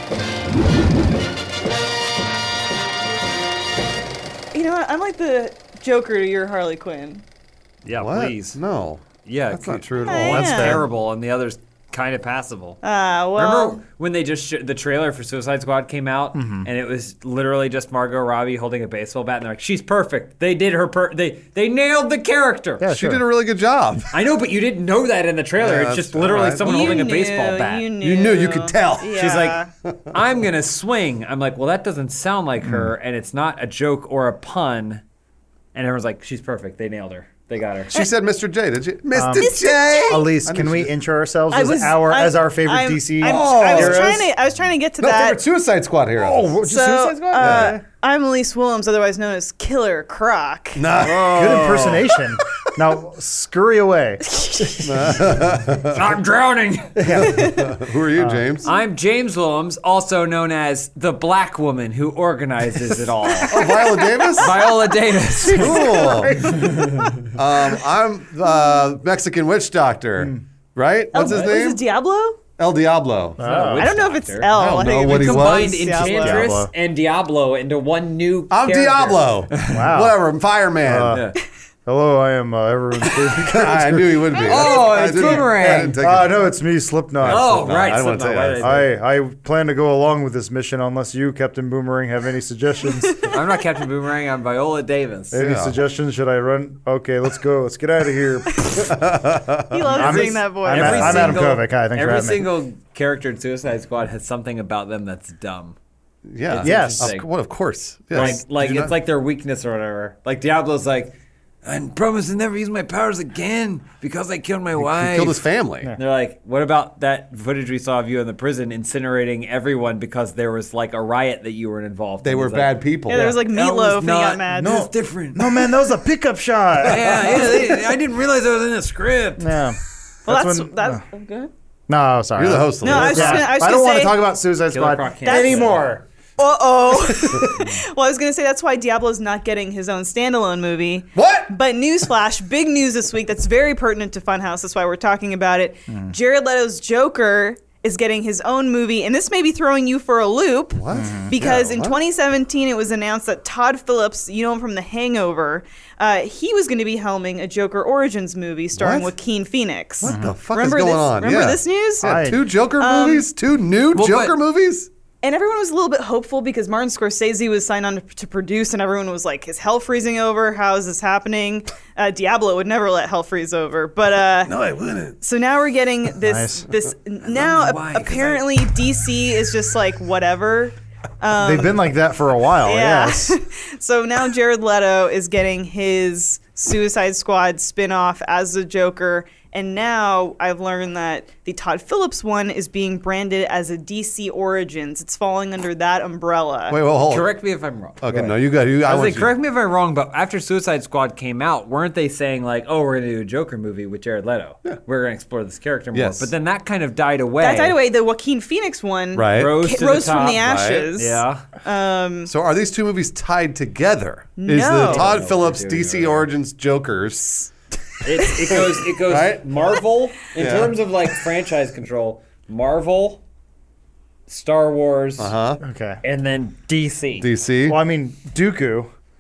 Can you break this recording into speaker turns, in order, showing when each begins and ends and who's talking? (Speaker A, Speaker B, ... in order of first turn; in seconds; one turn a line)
Speaker A: 4.5-7.2
Speaker B: 7.8-8.6
Speaker C: 8.0-10.8
Speaker B: 9.2-12.8
Speaker A: 10.0-10.8
Speaker D: 10.3-10.8
Speaker A: 12.8-13.8
Speaker B: 13.4-22.9
Speaker D: 16.4-16.7
Speaker D: 22.8-23.2
Speaker C: 22.9-24.1
Speaker B: 24.1-27.9
Speaker C: 25.6-27.1
Speaker A: 26.6-29.7
Speaker C: 28.0-29.2
Speaker B: 29.1-29.6
Speaker C: 29.9-30.2
Speaker B: 30.1-35.0
Speaker D: 32.6-32.9
Speaker B: 35.7-37.9
Speaker C: 37.9-40.9
Speaker D: 39.1-44.2
Speaker A: 39.4-40.3
Speaker A: 41.5-45.4
Speaker C: 43.2-44.3
Speaker C: 45.0-46.5
Speaker D: 46.2-47.8
Speaker A: 46.6-51.1
Speaker C: 47.4-47.8
Speaker C: 50.8-52.2
Speaker D: 51.0-55.4
Speaker B: 51.3-52.0
Speaker A: 54.3-54.9
Speaker C: 54.9-56.0
Speaker B: 55.9-57.4
Speaker D: 57.0-57.6
Speaker C: 57.1-58.7
Speaker A: 57.2-57.6
Speaker D: 58.2-58.4
Speaker B: 58.6-63.8
Speaker C: 63.5-64.6
Speaker A: 63.5-64.4
Speaker B: 64.3-66.1
Speaker D: 65.4-67.2
Speaker C: 65.5-66.6
Speaker B: 66.7-67.1
Speaker C: 67.3-71.8
Speaker A: 71.1-72.4
Speaker B: 71.2-71.5
Speaker C: 72.6-73.4
Speaker D: 73.4-73.9
Speaker B: 73.4-79.8
Speaker A: 73.7-76.5
Speaker C: 74.5-76.1
Speaker D: 76.0-76.7
Speaker C: 78.5-81.2
Speaker D: 79.7-80.2
Speaker D: 80.8-81.3
Speaker B: 81.1-81.3
Speaker D: 81.9-84.3
Speaker C: 83.3-86.4
Speaker A: 84.3-84.8
Speaker B: 84.4-86.0
Speaker D: 84.9-87.5
Speaker C: 87.2-88.7
Speaker B: 87.3-88.9
Speaker D: 88.6-93.3
Speaker A: 93.1-93.4
Speaker B: 93.3-95.4
Speaker D: 95.3-98.9
Speaker C: 95.3-95.8
Speaker A: 98.5-98.8
Speaker C: 98.7-99.9
Speaker A: 99.7-101.5
Speaker D: 99.9-102.5
Speaker B: 100.0-105.8
Speaker C: 106.3-108.9
Speaker B: 106.5-107.3
Speaker D: 106.6-107.2
Speaker B: 108.1-125.8
Speaker D: 108.1-108.4
Speaker C: 114.8-115.9
Speaker C: 122.2-123.4
Speaker A: 123.1-124.9
Speaker D: 124.5-127.8
Speaker B: 126.8-129.6
Speaker D: 129.4-131.0
Speaker A: 130.3-131.5
Speaker D: 131.9-136.0
Speaker C: 132.4-133.5
Speaker A: 132.8-134.2
Speaker B: 134.7-135.8
Speaker A: 135.2-135.8
Speaker A: 136.4-162.2
Speaker C: 141.2-141.6
Speaker D: 145.9-146.2
Speaker C: 150.8-152.0
Speaker D: 150.9-151.3
Speaker C: 158.8-159.1
Speaker C: 160.0-164.9
Speaker D: 160.1-160.3
Speaker D: 162.0-162.4
Speaker A: 162.8-163.3
Speaker B: 163.9-164.4
Speaker A: 165.2-174.5
Speaker C: 174.4-175.2
Speaker A: 175.2-181.8
Speaker D: 176.2-176.7
Speaker B: 177.3-178.4
Speaker D: 181.3-183.4
Speaker A: 182.7-196.8
Speaker C: 196.7-197.3
Speaker B: 197.1-207.8
Speaker C: 198.0-199.3
Speaker C: 205.9-206.3
Speaker A: 207.4-212.3
Speaker C: 209.1-209.5
Speaker B: 209.3-211.4
Speaker C: 210.4-210.9
Speaker C: 212.3-217.5
Speaker A: 214.4-215.1
Speaker B: 214.7-216.3
Speaker B: 218.0-223.2
Speaker C: 218.5-219.5
Speaker C: 220.4-220.8
Speaker B: 224.3-225.3
Speaker C: 225.2-225.6
Speaker D: 225.6-226.0
Speaker B: 226.0-227.3
Speaker C: 227.2-227.8
Speaker D: 227.7-228.9